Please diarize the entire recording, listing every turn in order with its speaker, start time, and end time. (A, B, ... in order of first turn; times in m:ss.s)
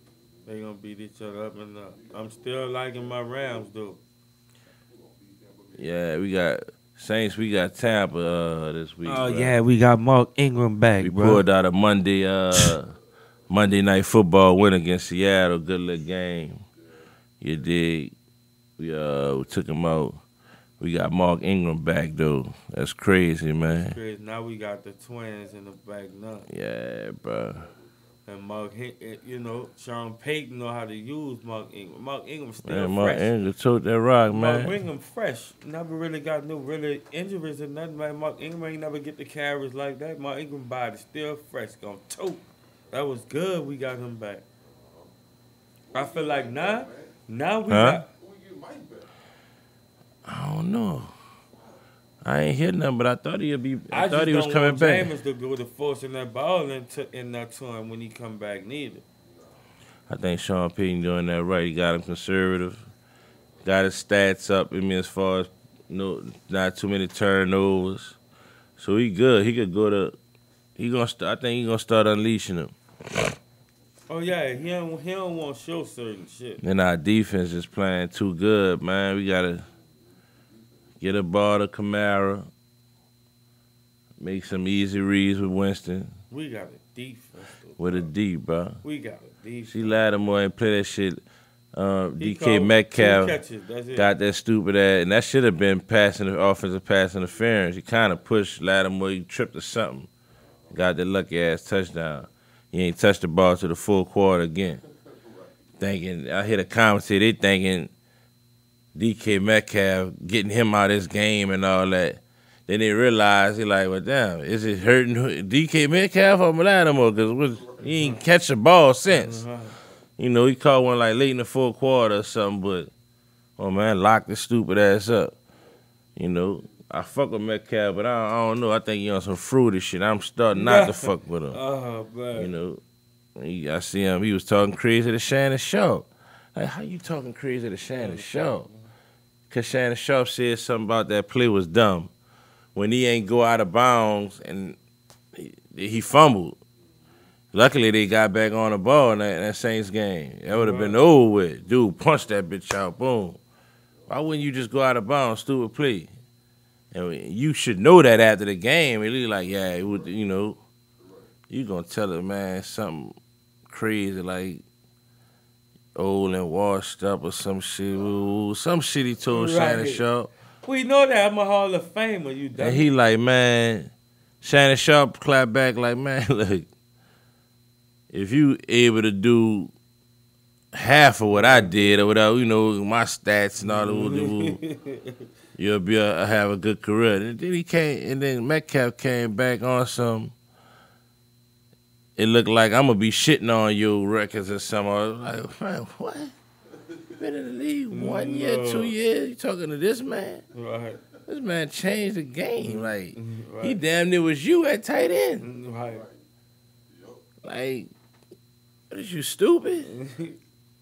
0:00.4-0:04.0 A
0:02.0-0:03.5 B
0:04.9-0:05.9 B
0:05.7-0:09.5 C
0:09.0-0:11.4 A
0:11.0-0:12.9 C
0:13.5-0:16.6 C
0:17.4-0:18.1 C
0:18.8-0:20.2 C
0:20.8-0:24.0 C
0:23.7-0:26.5 A
0:26.5-0:27.7 C
0:28.3-0:33.3 A
0:32.6-0:34.8 C
0:34.3-0:44.4 A
0:44.6-0:45.1 B
0:45.9-0:47.2 B
0:45.9-0:48.0 A
0:47.7-0:48.0 C
0:48.1-0:49.1 B
0:50.2-0:51.1 C
0:52.2-0:55.1 C
0:53.9-0:59.0 A
1:00.1-1:02.8 C
1:03.6-1:08.2 C
1:08.8-1:10.2 C
1:10.8-1:13.3 C
1:14.1-1:16.6 A
1:16.6-1:19.6 C
1:21.0-1:22.5 C
1:24.2-1:26.2 C
1:26.3-1:28.1 A
1:27.8-1:28.8 C
1:28.8-1:30.0 A
1:29.6-1:31.2 C
1:31.7-1:33.4 C
1:32.2-1:34.0 A
1:33.9-1:40.1 C
1:40.7-1:44.8 C
1:45.8-1:47.9 C
1:48.9-1:59.4 C
1:57.8-1:58.2 A
1:59.1-1:59.8 A
2:00.2-2:02.9 C
2:03.6-2:05.4 C
2:06.2-2:11.6 C
2:10.5-2:12.5 A
2:12.3-2:12.8 C
2:13.4-2:18.7 C
2:17.9-2:18.8 A
2:19.5-2:22.1 C
2:22.7-2:24.8 C
2:25.3-2:26.6 C
2:27.5-2:33.4 C
2:30.5-2:31.0 A
2:34.1-2:36.1 C
2:36.9-2:40.6 C
2:41.5-2:43.1 C
2:43.7-2:44.6 C
2:45.9-2:50.3 C
2:49.3-2:50.0 A
2:50.6-2:52.9 A
2:52.6-2:53.9 C
2:54.4-2:56.7 C
2:58.1-2:59.7 C
3:00.7-3:04.6 C
3:01.3-3:01.7 A
3:03.6-3:05.3 A
3:05.5-3:10.3 C
3:12.2-3:16.3 C
3:17.2-3:20.4 C
3:17.9-3:18.9 A
3:20.5-3:21.0 A
3:21.3-3:25.5 C
3:22.6-3:23.8 A
3:25.4-3:26.0 A
3:25.9-3:26.2 B
3:26.9-3:27.2 B
3:27.4-3:27.9 C
3:28.9-3:29.9 C
3:29.8-3:30.4 A